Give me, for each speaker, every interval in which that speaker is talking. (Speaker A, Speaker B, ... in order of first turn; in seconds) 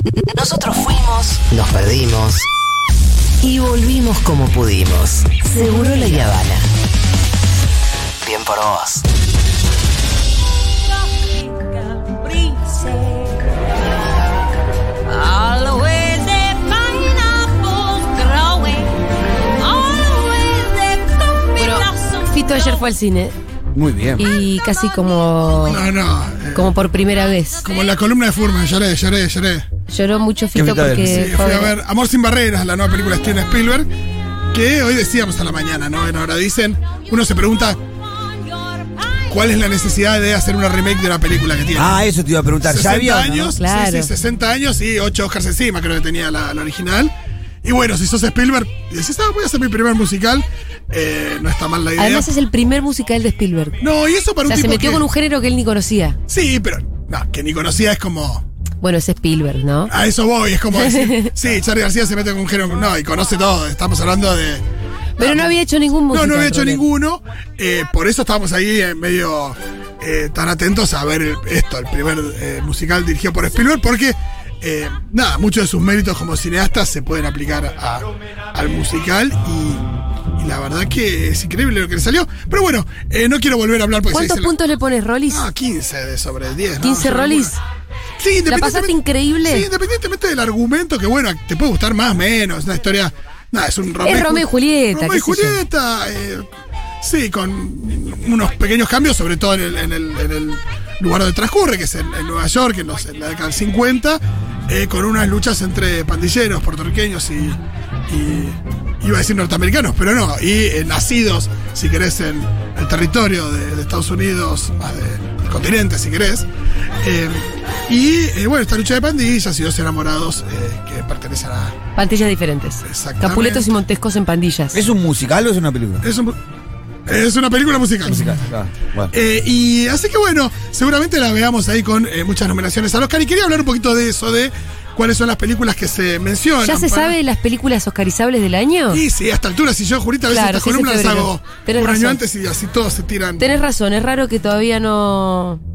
Speaker A: 0.3-2.5, 3.4-6.7, 8.2-9.0, 15.1-15.9
Speaker B: 12.0-13.2, 15.3-18.9, 19.6-22.0
Speaker C: 21.5-23.3, 24.2-25.8, 26.5-27.7, 29.9-31.7, 43.5-44.1, 52.0-53.8, 54.5-56.2, 58.8-59.9, 60.7-61.3, 65.2-66.8, 84.1-85.5, 86.8-87.6, 88.5-89.7, 94.0-95.6, 122.0-124.8, 136.6-139.0, 140.3-142.2, 143.4-145.6
Speaker D: 23.7-24.3, 30.5-31.3, 41.8-43.5, 124.7-126.0, 128.0-129.1
Speaker E: 25.6-26.7, 27.6-29.6, 31.0-33.9, 34.5-37.8, 39.3-42.0, 42.6-52.3, 53.8-55.1, 56.3-58.4, 59.9-64.6, 65.2-65.6, 66.1-84.5, 85.3-87.6, 88.2-96.4, 97.0-116.5, 117.0-121.8, 122.8-123.7, 126.0-126.4, 127.1-128.3, 129.1-137.2, 138.9-143.5